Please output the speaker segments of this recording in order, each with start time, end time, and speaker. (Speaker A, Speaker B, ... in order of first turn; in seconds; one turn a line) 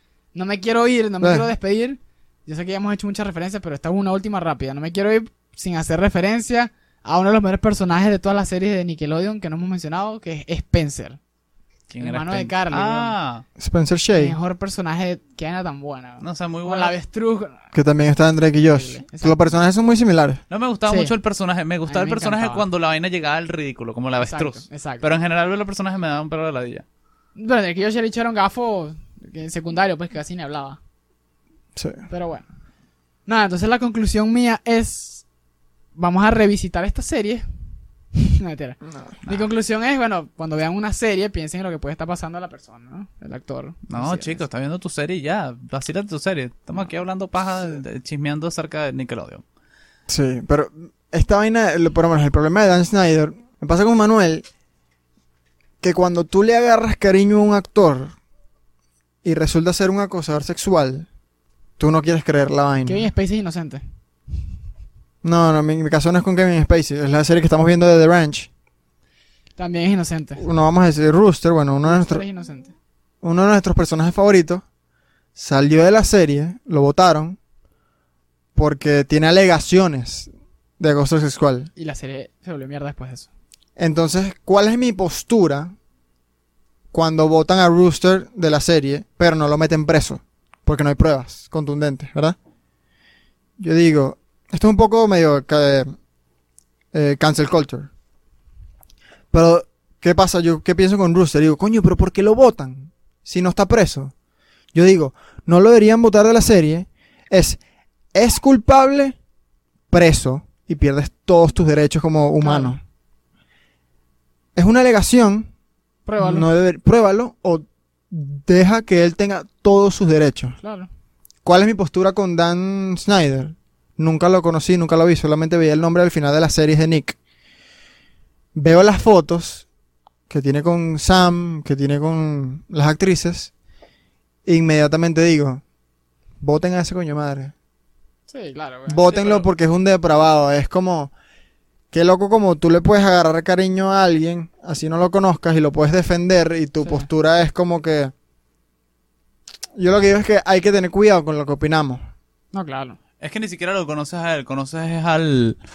Speaker A: 0.3-11.2
Speaker B: 1.2-1.5
Speaker C: 11.9-13.4
Speaker A: 12.0-13.1
Speaker B: 13.6-14.4
Speaker A: 14.2-17.6
Speaker C: 16.2-16.9
Speaker B: 17.7-20.4
Speaker A: 18.7-19.4
Speaker C: 20.5-26.9
Speaker A: 20.9-21.1
Speaker A: 21.9-22.6
Speaker A: 24.2-25.1
Speaker A: 27.4-30.8
Speaker B: 31.8-32.0
Speaker A: 32.1-32.5
Speaker A: 33.3-35.2
Speaker A: 36.0-37.5
Speaker A: 38.1-44.4
Speaker B: 38.9-39.1
Speaker C: 43.9-49.4
Speaker B: 50.1-54.5
Speaker B: 55.8-58.1
Speaker B: 59.2-61.1
Speaker B: 61.8-63.1
Speaker A: 62.9-63.8
Speaker B: 65.2-68.5
Speaker A: 69.6-70.4
Speaker B: 70.4-72.2
Speaker A: 71.8-72.7
Speaker B: 73.2-74.7
Speaker B: 75.3-77.4
Speaker B: 78.5-81.7
Speaker A: 81.8-83.3
Speaker B: 83.8-85.7
Speaker B: 86.9-92.4
Speaker B: 93.6-95.9
Speaker B: 96.9-97.9
Speaker B: 99.3-104.1
Speaker B: 104.7-107.6
Speaker B: 108.1-109.2
Speaker B: 109.9-112.8
Speaker A: 112.4-112.8
Speaker B: 114.6-115.5
Speaker A: 116.1-116.5
Speaker B: 116.2-120.6
Speaker A: 120.6-120.9
Speaker B: 121.5-127.2
Speaker B: 128.6-129.7
Speaker B: 130.3-133.5
Speaker B: 134.5-135.6
Speaker B: 136.4-137.5
Speaker A: 138.3-139.5
Speaker B: 138.9-141.1
Speaker B: 141.9-148.1
Speaker A: 146.8-147.1
Speaker B: 149.8-152.0
Speaker A: 152.5-153.0
Speaker C: 153.2-155.6